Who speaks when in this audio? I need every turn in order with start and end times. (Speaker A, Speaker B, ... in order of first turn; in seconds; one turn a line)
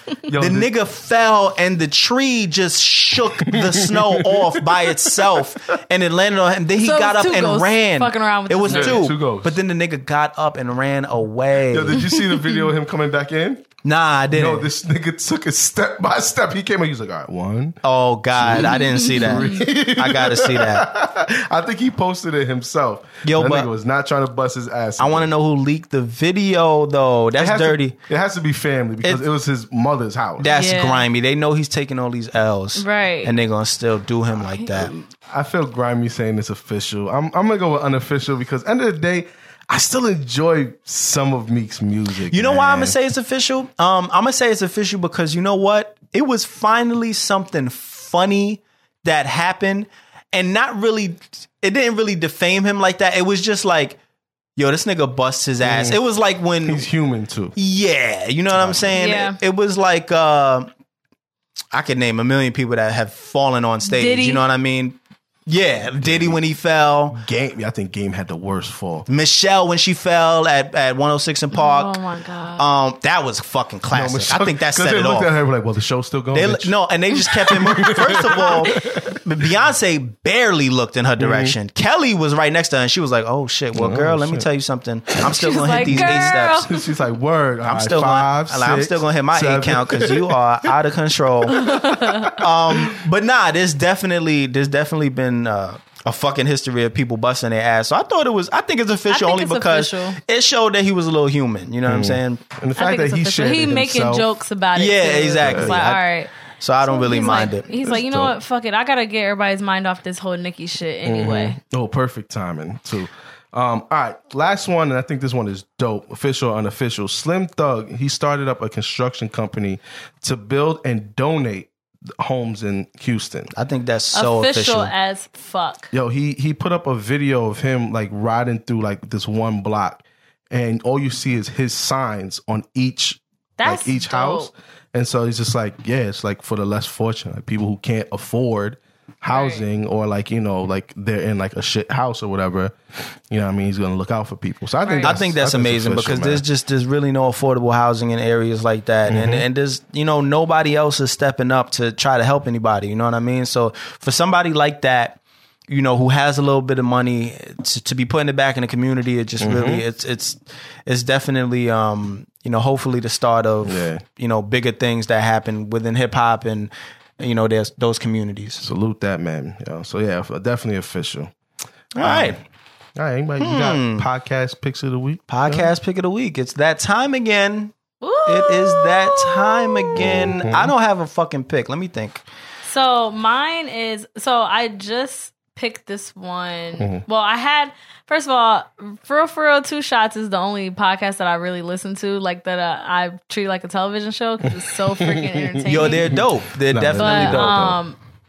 Speaker A: 0.3-0.7
Speaker B: 0.3-12.0
Speaker A: 3.4-5.5
Speaker C: 6.8-9.1
Speaker A: 8.7-9.6
Speaker A: 11.7-13.7
Speaker B: 13.8-14.7
Speaker A: 14.3-17.8
Speaker B: 17.8-20.9
Speaker A: 18.3-25.3
Speaker C: 18.8-19.6
Speaker B: 23.2-23.7
Speaker B: 25.0-27.9
Speaker A: 27.4-30.5
Speaker B: 30.4-34.9
Speaker C: 30.4-31.1
Speaker C: 32.8-33.3
Speaker A: 34.7-42.9
Speaker B: 42.3-54.0
Speaker B: 54.6-56.8
Speaker A: 55.6-56.0
Speaker A: 56.6-57.5
Speaker B: 57.5-60.7
Speaker A: 58.5-58.9
Speaker C: 58.9-59.4
Speaker B: 61.7-67.2
Speaker C: 63.8-64.4
Speaker A: 66.0-66.4
Speaker A: 67.1-69.1
Speaker B: 69.1-72.0
Speaker C: 71.5-72.6
Speaker B: 72.6-75.3
Speaker A: 73.9-76.7
Speaker B: 76.3-86.7
Speaker A: 77.4-79.2
Speaker C: 78.3-78.8
Speaker A: 81.2-81.5
Speaker A: 83.7-84.5
Speaker C: 85.2-86.8
Speaker A: 85.8-90.4
Speaker B: 87.6-91.8
Speaker C: 91.5-92.3
Speaker A: 91.6-92.1
Speaker B: 92.3-102.4
Speaker C: 99.1-100.2
Speaker A: 101.8-104.2
Speaker C: 102.8-106.3
Speaker B: 104.8-106.0
Speaker A: 105.4-105.8
Speaker B: 106.6-107.7
Speaker C: 106.8-111.6
Speaker A: 107.8-108.3
Speaker A: 111.0-123.5
Speaker B: 123.5-124.9
Speaker C: 124.1-125.9
Speaker A: 125.9-142.8
Speaker C: 133.6-134.5
Speaker C: 139.3-139.6
Speaker A: 143.3-146.4
Speaker C: 144.8-145.2
Speaker B: 145.0-168.6
Speaker A: 149.1-149.4
Speaker A: 159.4-159.8
Speaker A: 163.6-164.0
Speaker A: 168.6-171.3
Speaker B: 171.9-172.4
Speaker A: 171.9-172.4
Speaker A: 172.9-175.7
Speaker B: 173.4-174.1
Speaker B: 175.3-177.7
Speaker C: 178.0-180.0
Speaker B: 178.2-182.2
Speaker A: 179.9-180.7
Speaker C: 182.6-196.2
Speaker A: 194.4-197.8
Speaker B: 195.7-197.8
Speaker C: 196.9-198.0